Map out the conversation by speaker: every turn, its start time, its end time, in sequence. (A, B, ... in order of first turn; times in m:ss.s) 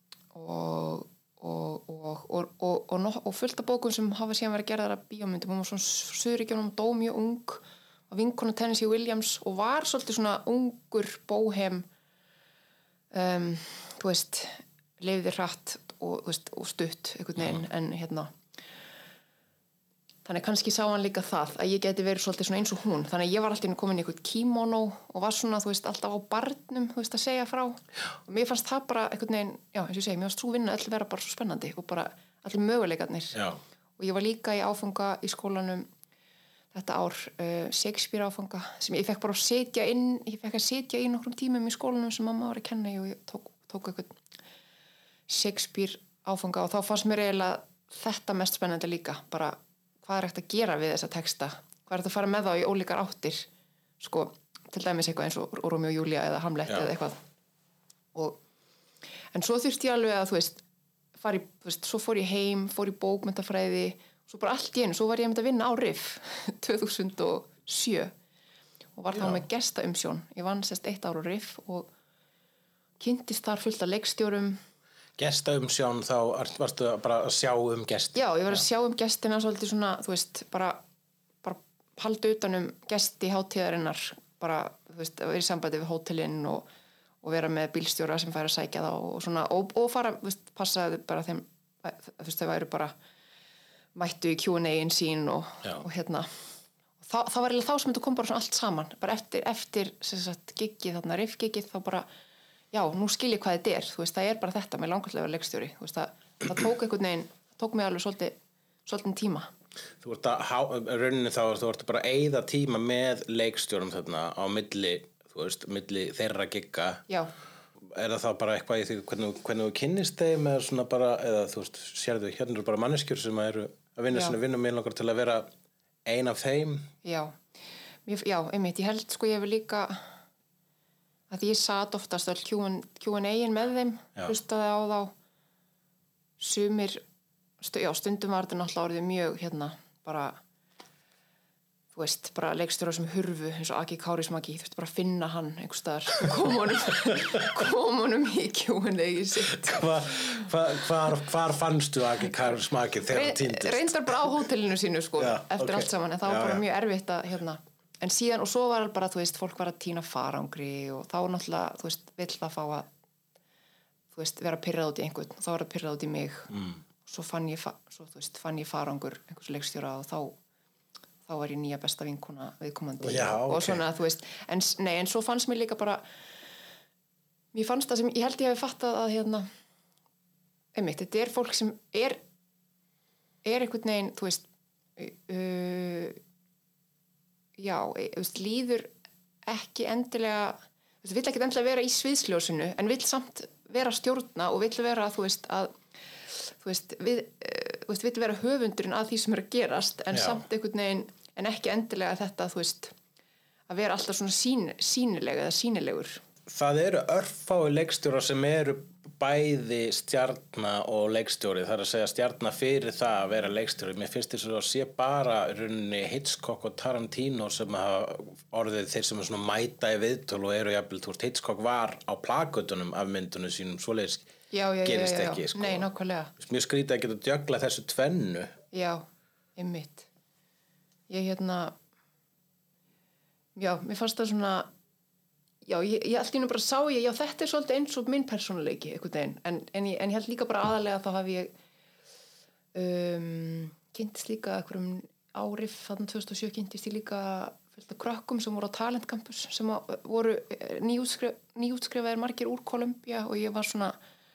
0:00.3-0:11.8 A
0:13.1-0:18.3 A
0:20.2-0:33.4 A
0:33.3-0:33.6 B
0:34.0-0:35.9 A
0:36.7-0:44.2 A
0:45.3-0:53.5 A
0:54.0-0:57.2 A
0:58.1-0:58.4 A
0:59.3-1:00.6 A
1:01.2-1:08.1 A
1:09.0-1:11.9 A
1:09.1-1:09.4 B
1:13.0-1:14.6 A
1:15.2-1:18.6 B
1:18.1-1:20.8 A
1:21.4-1:26.7 A
1:27.2-1:32.9 A
1:33.9-1:36.4 A
1:37.0-1:42.1 A
1:42.7-1:49.5 A
1:50.0-1:57.0 B
1:57.1-1:57.3 A
1:57.8-2:05.5 B
2:04.1-2:04.4 A
2:06.0-2:06.9 B
2:07.0-2:07.4 A
2:08.0-2:10.2 A
2:11.3-2:15.1 A
2:16.4-2:17.0 A
2:17.6-2:20.4 A
2:21.9-2:30.5 A
2:29.5-2:34.3 B
2:33.1-2:42.9 A
2:35.2-2:36.6 B
2:44.1-2:46.5 A
2:46.5-2:46.8 B
2:47.0-2:50.4 A
2:51.2-2:56.0 A
2:53.0-2:53.8 B
2:57.5-2:59.5 A
3:00.7-3:02.2 A
3:03.4-3:04.4 A
3:05.0-3:06.2 A
3:07.6-3:08.9 A
3:09.4-3:22.9 A
3:20.1-3:20.4 B
3:23.7-3:26.2 A
3:26.5-3:44.3 B
3:44.5-3:46.3 A
3:44.8-3:45.9 B
3:46.4-3:48.5 B
3:48.7-3:49.0 A
3:49.6-3:50.1 A
3:51.1-3:51.8 A
3:53.6-3:54.7 A
3:55.6-4:01.5 A
4:02.7-4:14.0 A